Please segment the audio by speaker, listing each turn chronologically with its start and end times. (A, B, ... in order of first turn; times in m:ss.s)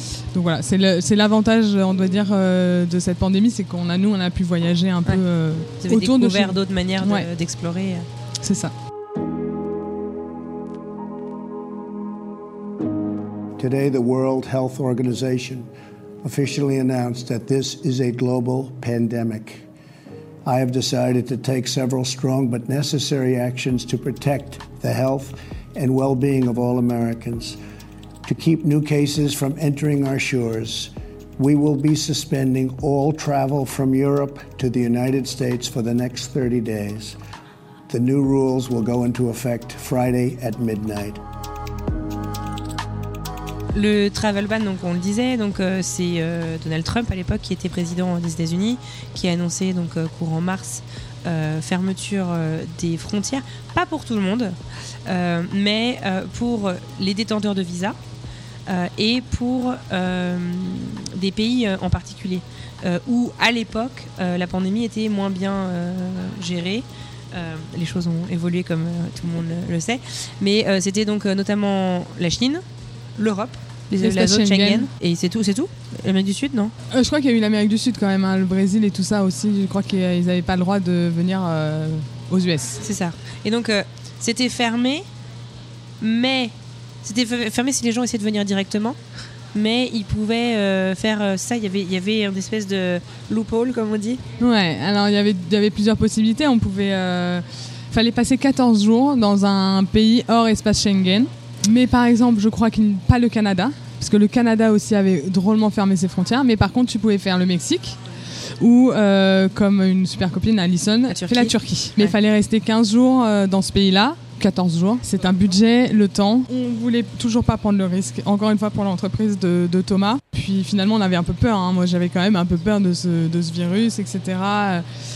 0:00.3-0:07.3 A
0:05.8-0:08.1 B
0:08.4-0:08.7 A
0:13.6-0:15.7 C
0:16.2-0:19.6 C
0:20.4-0:27.6 C
0:28.3-0:37.2 C
0:37.9-0:41.2 C
0:43.7-0:58.0 B
0:58.7-1:12.6 B
1:13.2-1:16.7 B
1:14.0-1:14.9 A
1:16.9-1:22.8 A
1:22.8-1:25.1 B
1:26.0-1:29.0 B
1:29.5-1:34.2 B
1:34.4-1:48.0 A
1:48.6-2:04.8 A
1:51.1-1:52.1 B